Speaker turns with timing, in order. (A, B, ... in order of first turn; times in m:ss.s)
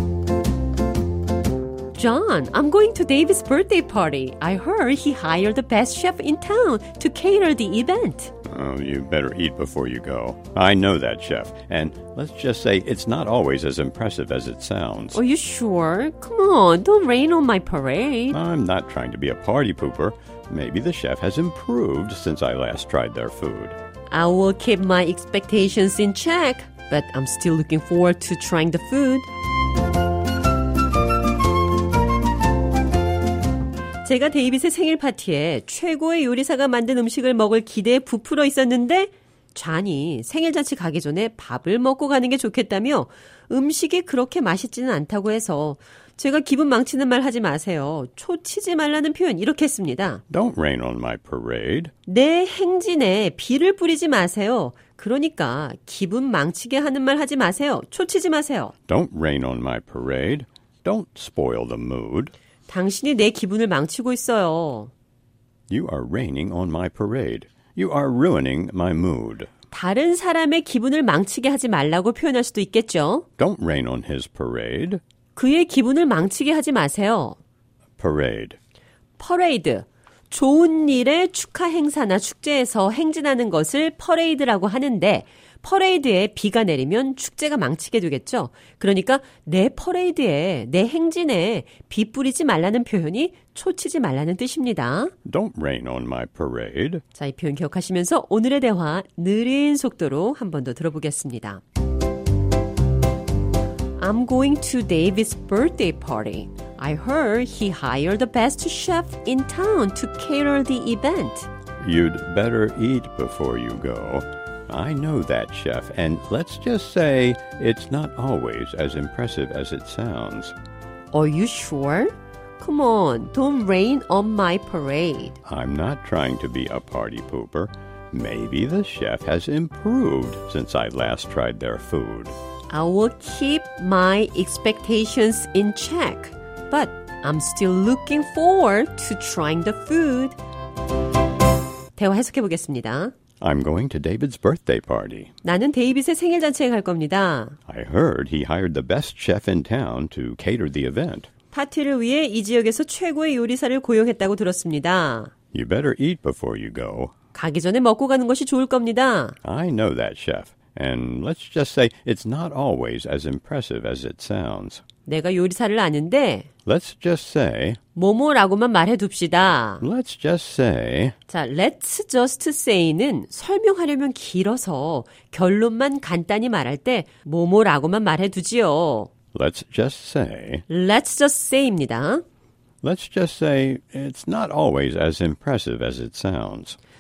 0:01.9-0:08.3 A
0:08.4-0:15.2 B
0:15.1-0:18.4 A
0:18.3-0:23.8 B
0:24.1-0:29.3 A
0:34.0-0:50.2 A
0:50.3-0:51.9 B
0:52.1-0:58.7 A
0:58.9-1:02.3 B
1:02.7-1:04.9 A
1:05.7-1:09.5 B
1:09.7-1:13.3 A
1:13.4-1:15.0 B
1:15.4-1:17.4 A
1:18.0-1:18.6 B
1:19.2-1:35.1 A
1:35.2-1:37.0 B
1:37.2-1:41.6 A
1:44.0-1:51.5 A
1:51.8-2:00.6 B
2:01.1-2:05.4 A
2:05.5-2:12.4 B
2:12.7-2:20.4 A
2:22.0-2:23.1 A
2:23.4-2:25.3 B
2:25.4-2:27.6 A
2:27.7-2:31.3 B
2:31.5-2:35.3 A
2:35.5-2:37.2 B
2:37.3-2:39.4 A
2:39.4-2:44.8 B
2:45.1-2:46.5 A
2:46.7-2:47.8 B
2:48.0-2:49.8 A
2:49.8-2:51.2 B
2:51.3-2:59.1 A
2:59.3-3:00.6 B
3:00.7-3:02.2 A
3:02.8-3:06.8 B